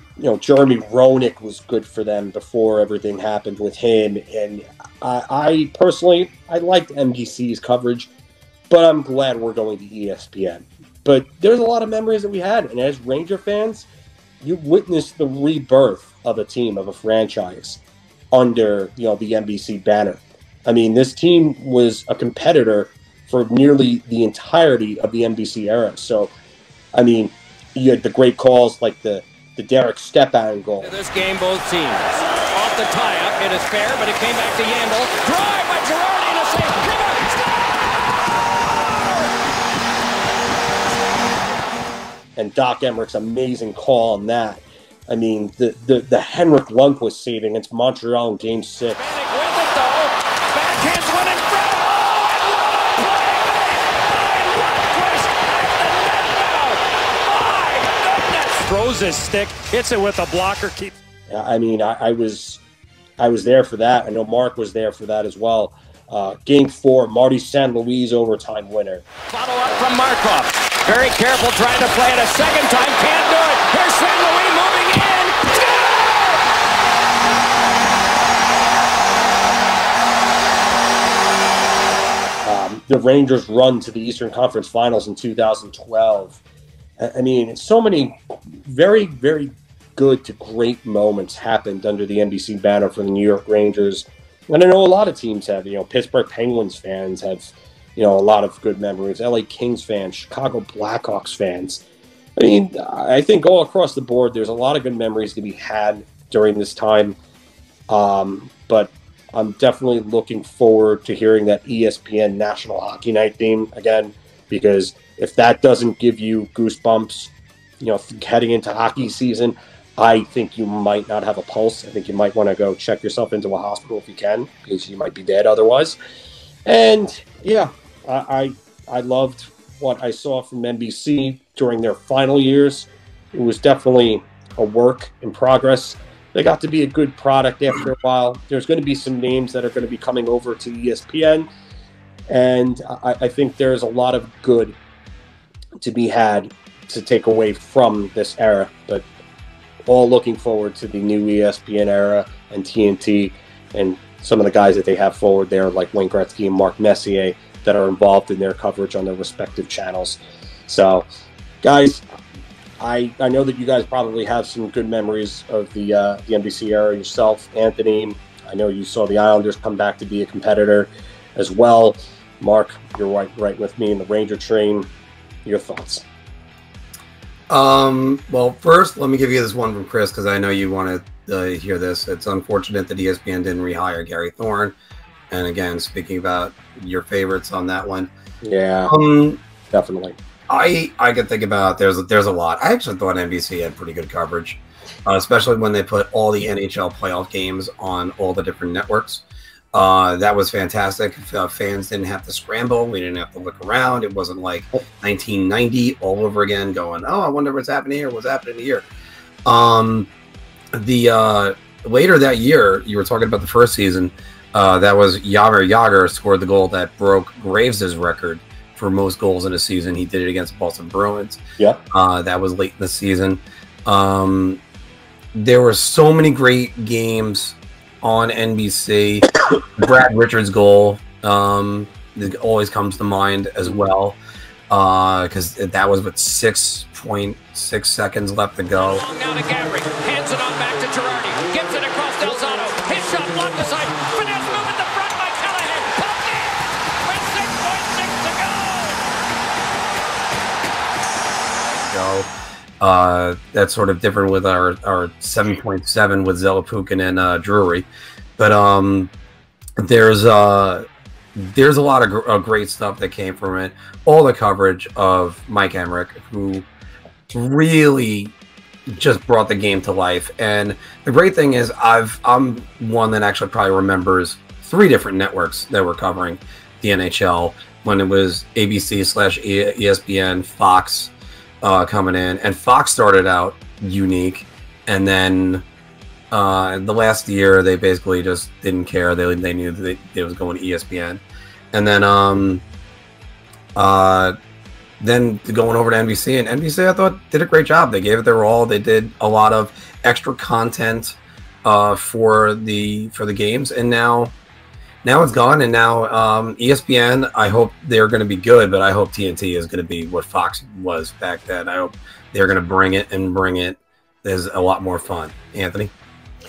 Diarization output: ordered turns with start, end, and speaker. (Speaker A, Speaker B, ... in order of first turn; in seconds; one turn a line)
Speaker A: 0.2-8.1
Speaker A: 8.7-13.9
Speaker A: 14.4-17.8
Speaker A: 18.3-26.3
Speaker A: 26.9-31.0
Speaker B: 30.9-37.7
Speaker A: 42.4-49.1
Speaker B: 49.0-60.9
Speaker A: 61.3-62.6
Speaker A: 63.2-69.0
Speaker B: 69.3-76.4
Speaker A: 69.6-70.0
Speaker A: 82.4-86.4
Speaker A: 87.0-101.8
Speaker A: 102.4-107.2
Speaker A: 107.9-126.0
Speaker A: 126.7-141.5
Speaker A: 142.3-144.8
Speaker A: 145.8-149.1
Speaker A: 149.8-161.1
Speaker A: 161.6-162.0
Speaker A: 162.8-174.9
Speaker A: 175.4-176.0
Speaker C: 177.5-184.7
Speaker C: 185.3-188.1
Speaker A: 188.4-188.9
Speaker C: 188.9-189.4
Speaker A: 189.7-190.2
Speaker C: 190.5-208.9
Speaker C: 209.5-210.1
Speaker C: 210.7-221.4
Speaker C: 221.9-224.6
Speaker C: 225.3-234.2
Speaker C: 234.7-239.0
Speaker B: 238.8-249.0
Speaker C: 251.7-252.3
Speaker C: 252.8-257.9
Speaker C: 258.4-259.1
Speaker C: 259.8-260.8
Speaker C: 261.4-266.6
Speaker C: 267.3-268.3
Speaker C: 268.9-285.6
Speaker C: 286.3-292.6
Speaker C: 293.8-294.4
Speaker C: 295.0-304.3
Speaker C: 305.0-315.9